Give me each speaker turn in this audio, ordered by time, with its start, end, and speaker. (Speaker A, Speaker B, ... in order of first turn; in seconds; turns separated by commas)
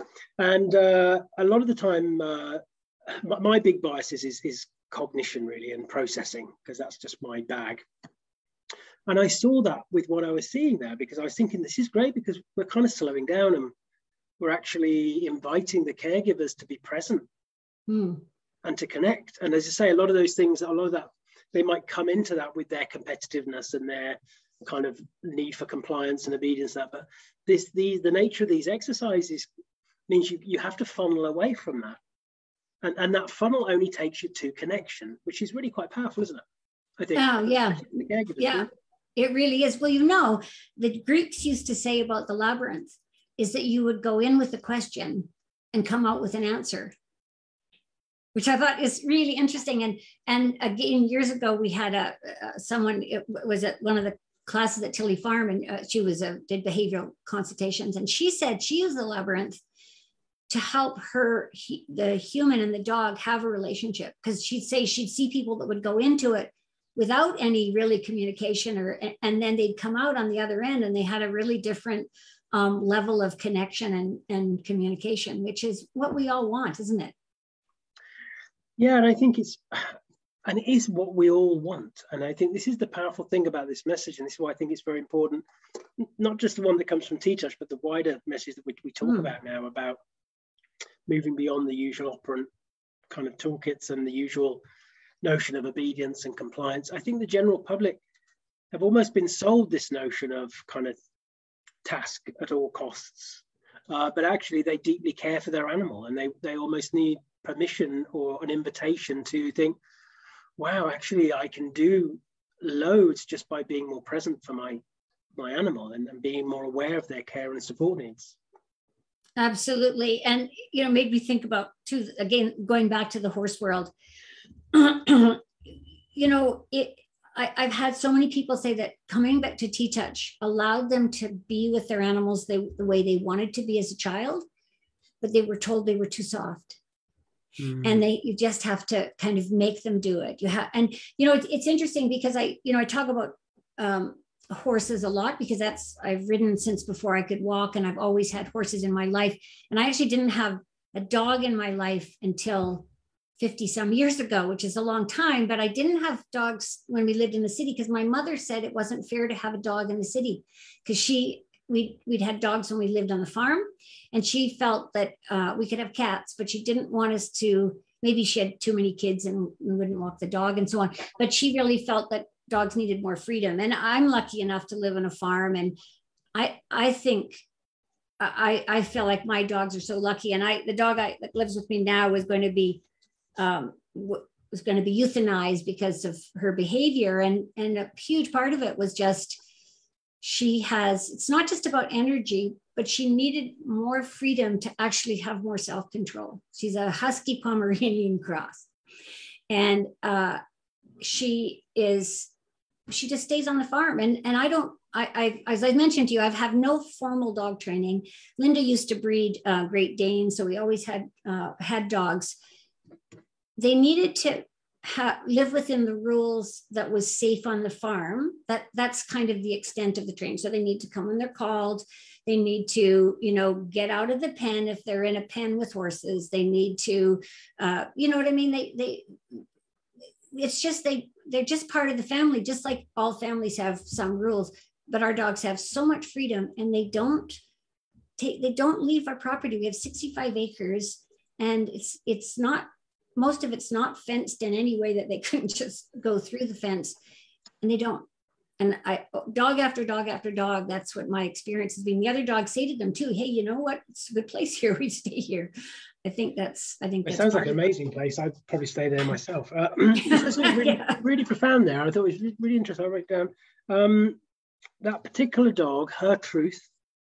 Speaker A: 0.4-7.8, Speaker A: 9.1-13.7, Speaker A: 14.4-17.3, Speaker B: 17.9-18.2, Speaker A: 18.6-29.5, Speaker A: 30.1-32.0, Speaker A: 32.8-36.4, Speaker A: 37.0-38.7, Speaker B: 37.1-46.9, Speaker B: 48.3-59.6, Speaker B: 60.5-77.1, Speaker A: 78.8-85.4, Speaker A: 86.0-90.0, Speaker A: 91.1-92.5, Speaker A: 93.1-94.6, Speaker A: 95.2-98.0, Speaker A: 98.7-101.0, Speaker A: 101.8-109.8, Speaker A: 110.6-114.8, Speaker A: 115.3-118.3, Speaker B: 119.4-123.9, Speaker B: 124.7-125.4, Speaker B: 126.1-134.4, Speaker B: 135.2-136.8, Speaker A: 137.6-138.0, Speaker B: 137.8-152.8, Speaker B: 153.4-175.8, Speaker B: 176.3-177.4, Speaker B: 178.2-182.8, Speaker B: 183.4-189.4, Speaker B: 190.2-198.7, Speaker B: 199.5-200.4, Speaker B: 201.0-202.3, Speaker B: 202.9-212.4, Speaker B: 213.6-229.4, Speaker B: 230.3-237.4, Speaker B: 238.2-246.9, Speaker B: 247.6-248.1, Speaker B: 248.6-255.5, Speaker B: 256.0-257.6, Speaker A: 257.0-264.2, Speaker B: 260.1-261.0, Speaker A: 264.8-266.7